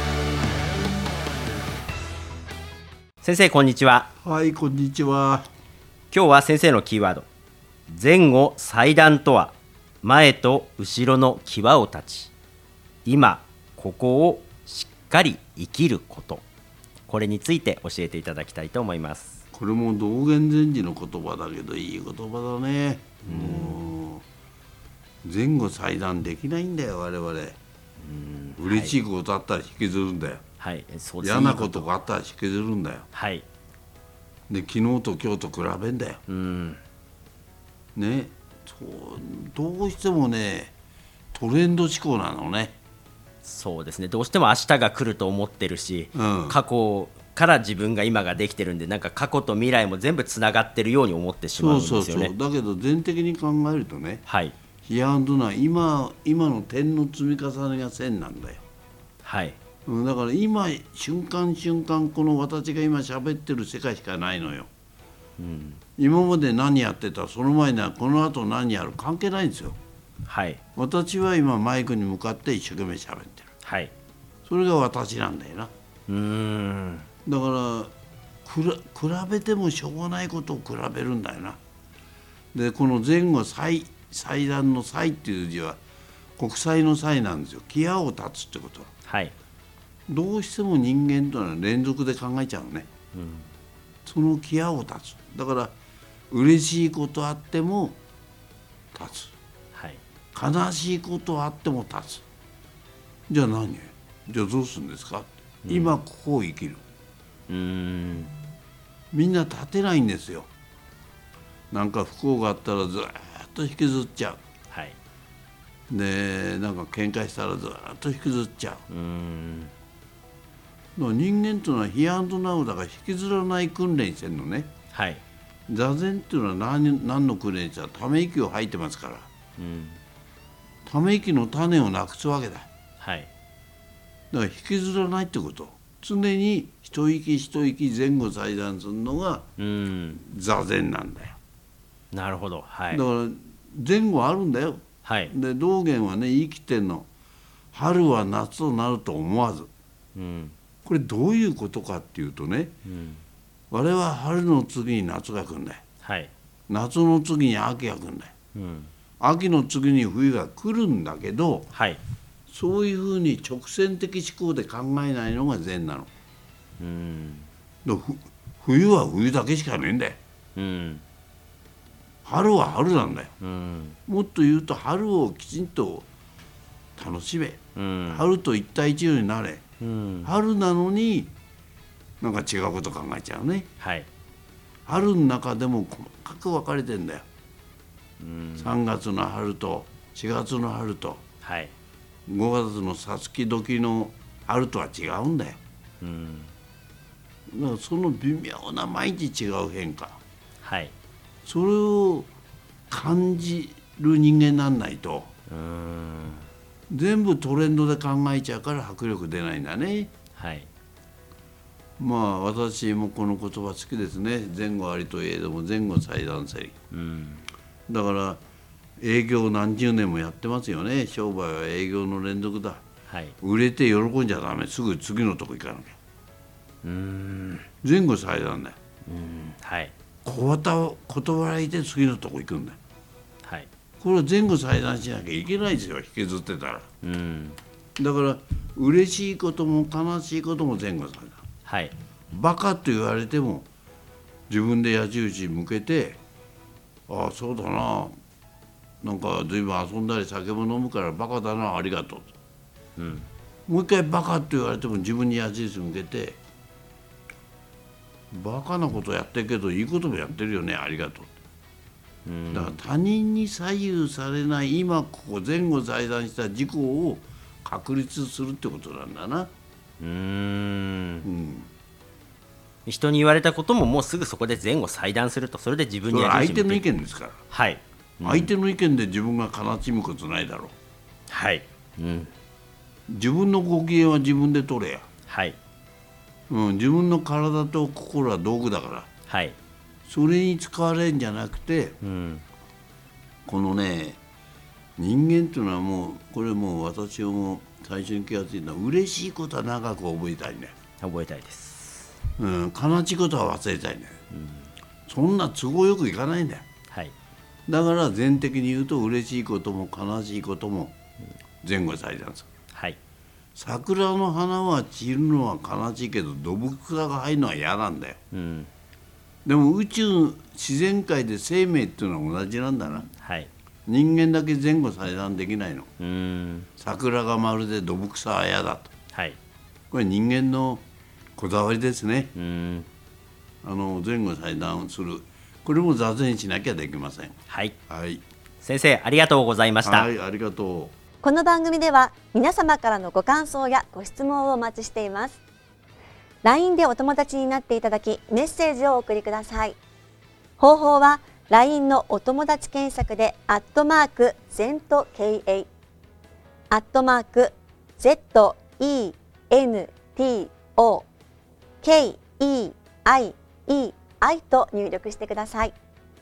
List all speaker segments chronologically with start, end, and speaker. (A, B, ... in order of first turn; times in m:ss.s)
0:03.2-0:04.1 A
0:04.2-0:05.5 B
0:06.1-0:07.2 A
0:07.9-0:12.3 A
0:13.0-0:16.4 A
0:17.1-0:19.4 A
0:19.5-0:24.2 B
0:23.2-0:23.8 A
0:25.2-0:27.6 B
0:28.0-0:28.9 A
0:28.6-0:30.4 B
0:30.6-0:31.9 A
0:31.2-0:33.1 B
0:33.1-0:33.4 A
0:34.5-0:36.2 B
0:36.3-0:36.8 A
0:38.0-0:40.7 B
0:41.3-0:42.7 B
0:43.4-0:52.3 A
0:46.1-0:46.6 B
0:51.6-0:54.2 B
0:54.3-0:54.5 A
0:54.8-0:58.6 B
0:59.2-0:59.6 A
0:59.8-1:04.7 B
1:05.4-1:05.8 A
1:06.0-1:09.8 B
1:10.3-1:10.6 A
1:10.7-1:13.5 B
1:13.6-1:13.9 A
1:14.4-1:15.7 B
1:16.1-1:17.0 A
1:17.2-1:17.9 B
1:18.4-1:21.6 B
1:22.5-1:25.8 B
1:26.4-1:28.9 B
1:29.1-1:29.3 A
1:30.1-1:32.9 B
1:33.1-1:33.5 A
1:34.0-1:35.7 B
1:36.3-1:38.0 B
1:38.9-1:39.3 B
1:39.7-1:40.0 A
1:40.3-1:42.2 B
1:43.3-1:46.8 B
1:45.6-1:45.9 A
1:47.5-1:48.4 A
1:49.1-1:50.5 B
1:51.7-1:54.4 B
1:54.7-1:55.0 A
1:55.9-1:58.8 B
1:58.9-1:59.7 A
2:01.0-2:04.7 B
2:04.9-2:05.2 A
2:05.7-2:09.3 B
2:09.6-2:10.0 A
2:10.8-2:12.7 B
2:13.0-2:13.3 A
2:14.3-2:19.5 B
2:19.6-2:20.2 A
2:20.2-2:21.4 B
2:22.1-2:23.0 A
2:22.9-2:27.1 B
2:25.0-2:25.3 A
2:27.7-2:29.7 B
2:30.2-2:30.6 A
2:30.8-2:32.7 B
2:32.8-2:33.2 A
2:33.7-2:35.8 B
2:36.0-2:36.3 A
2:36.7-2:38.3 B
2:38.5-2:38.9 A
2:39.2-2:41.7 B
2:41.7-2:42.0 A
2:42.5-2:46.1 B
2:46.8-2:47.5 A
2:47.8-2:50.2 B
2:50.6-2:51.0 A
2:52.2-2:53.3 B
2:53.4-2:54.0 A
2:54.1-2:56.0 B
2:57.0-2:59.6 B
2:57.8-2:58.2 A
2:59.8-3:00.3 A
3:00.2-3:01.3 B
3:02.2-3:03.7 B
3:03.8-3:04.1 A
3:04.8-3:07.2 B
3:08.2-3:08.7 A
3:08.6-3:11.2 B
3:11.4-3:11.7 A
3:12.3-3:15.6 B
3:16.0-3:16.5 A
3:17.5-3:20.2 B
3:20.6-3:20.9 A
3:21.4-3:22.3 B
3:22.9-3:25.3 B
3:25.5-3:26.5 A
3:26.9-3:30.1 B
3:30.4-3:30.7 A
3:32.0-3:36.8 B
3:36.9-3:37.4 A
3:37.9-3:38.4 B
3:39.0-3:42.8 B
3:43.4-3:46.0 B
3:46.8-3:47.6 A
3:47.8-3:48.8 B
3:49.1-3:49.9 A
3:50.2-3:52.8 B
3:53.4-3:53.7 A
3:54.0-3:56.9 B
3:57.0-3:57.6 A
3:58.0-4:01.4 B
4:01.6-4:01.9 A
4:02.3-4:03.7 B
4:04.5-4:06.2 B
4:07.1-4:08.2 B
4:09.0-4:12.3 B
4:13.0-4:13.3 A
4:13.7-4:16.4 B
4:18.3-4:21.3 B
4:22.2-4:22.8 A
4:22.5-4:29.5 B
4:30.0-4:31.2 A
4:31.2-4:31.7 B
4:32.8-4:36.8 A
4:36.1-4:37.4 B
4:37.5-4:38.5 A
4:38.2-4:40.7 B
4:41.3-4:42.3 A
4:43.1-4:45.1 B
4:45.3-4:45.6 A
4:46.5-4:49.1 B
4:49.3-4:49.6 A
4:50.1-4:52.0 B
4:52.0-4:52.4 A
4:53.4-4:54.2 B
4:55.0-5:00.7 B
5:01.0-5:02.1 A
5:02.4-5:04.2 B
5:04.3-5:04.7 A
5:05.1-5:06.6 B
5:07.7-5:10.9 B
5:11.6-5:12.5 B
5:12.7-5:13.0 A
5:13.6-5:18.2 B
5:18.3-5:18.7 A
5:19.4-5:23.1 B
5:23.2-5:23.5 A
5:23.9-5:25.9 B
5:26.0-5:26.7 A
5:26.8-5:28.9 B
5:29.1-5:29.4 A
5:29.9-5:30.8 B
5:31.4-5:32.3 B
5:32.3-5:32.9 A
5:33.6-5:37.4 B
5:37.5-5:37.7 A
5:37.9-5:38.2 B
5:38.6-5:40.1 A
5:39.8-5:40.9 B
5:41.2-5:45.4 C
5:46.4-5:49.8 C
5:50.6-5:55.7 C
5:56.7-6:01.1 C
6:01.8-6:05.7 C